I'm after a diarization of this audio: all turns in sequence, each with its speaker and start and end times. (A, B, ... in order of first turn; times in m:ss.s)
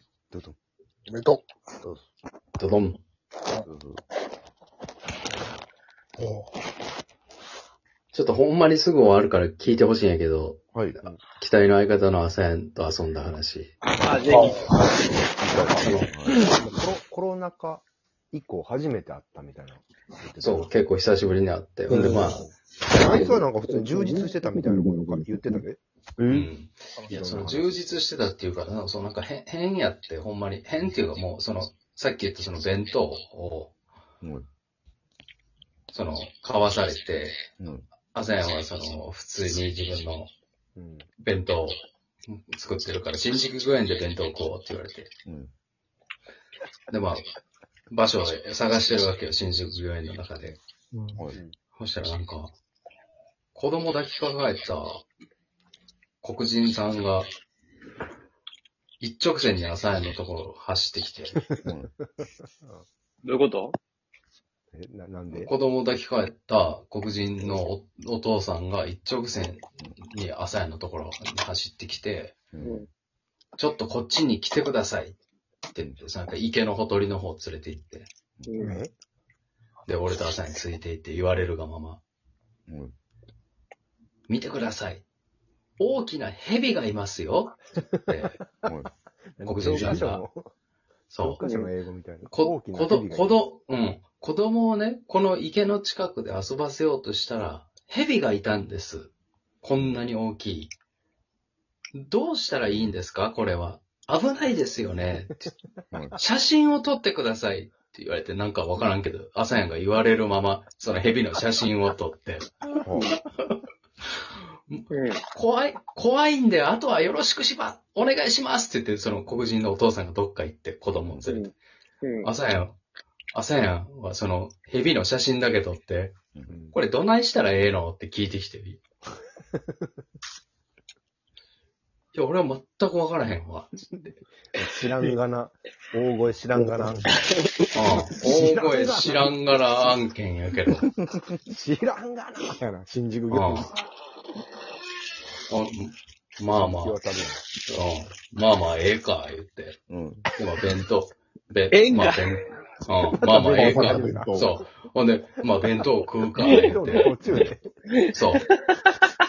0:01.1-0:01.4 A
0:02.6-0:03.0 B
0:03.6-0:04.0 C
0:06.2-0:06.5 A
0:08.1-0:13.7 B
0:10.7-0:11.0 C
0:14.0-0:14.7 D
0:15.4-0:20.7 E
0:15.5-0:16.4 C
0:15.8-0:16.1 B
0:20.4-0:22.4 B
0:21.9-0:25.8 E
0:26.3-0:33.7 B
0:27.0-0:27.7 E
0:34.2-0:34.5 C
0:35.9-0:37.4 B
0:37.6-0:37.8 C
0:38.1-0:40.3 B
0:40.8-0:41.1 E
0:41.2-0:45.1 B
0:45.2-0:45.5 C
0:46.9-0:47.2 B
0:47.9-0:50.6 B
0:50.9-0:51.2 A
0:51.8-0:52.5 B
0:53.5-0:55.0 B
0:56.2-0:57.3 B
0:59.0-1:01.4 B
1:01.6-1:01.9 C
1:02.2-1:02.8 E
1:03.2-1:03.7 D
1:04.7-1:05.5 E
1:05.3-1:12.4 B
1:12.5-1:12.8 C
1:13.6-1:15.2 B
1:15.7-1:18.1 B
1:18.5-1:18.7 D
1:18.6-1:18.9 E
1:19.8-1:22.0 B
1:22.7-1:22.9 C
1:24.3-1:25.0 B
1:25.8-1:28.4 B
1:29.4-1:30.5 E
1:29.4-1:30.2 B
1:31.1-1:31.4 B
1:31.2-1:33.4 E
1:32.3-1:40.7 B
1:42.0-1:45.5 B
1:45.9-1:46.2 C
1:46.2-1:52.5 B
1:52.8-1:53.2 E
1:54.7-2:01.5 B
1:54.9-1:55.2 D
2:02.0-2:02.3 D
2:02.2-2:02.8 B
2:03.3-2:06.2 B
2:06.3-2:06.6 C
2:06.5-2:06.8 E
2:06.7-2:08.8 B
2:12.1-2:14.2 B
2:14.5-2:19.3 E
2:17.7-2:20.8 B
2:21.5-2:23.7 E
2:23.3-2:23.7 B
2:25.5-2:27.0 B
2:26.6-2:27.4 E
2:27.6-2:29.8 B
2:29.9-2:30.2 C
2:30.3-2:37.5 B
2:31.7-2:32.2 D
2:33.1-2:34.4 E
2:33.3-2:34.5 A
2:36.4-2:37.7 E
2:36.4-2:36.7 D
2:38.1-2:38.4 B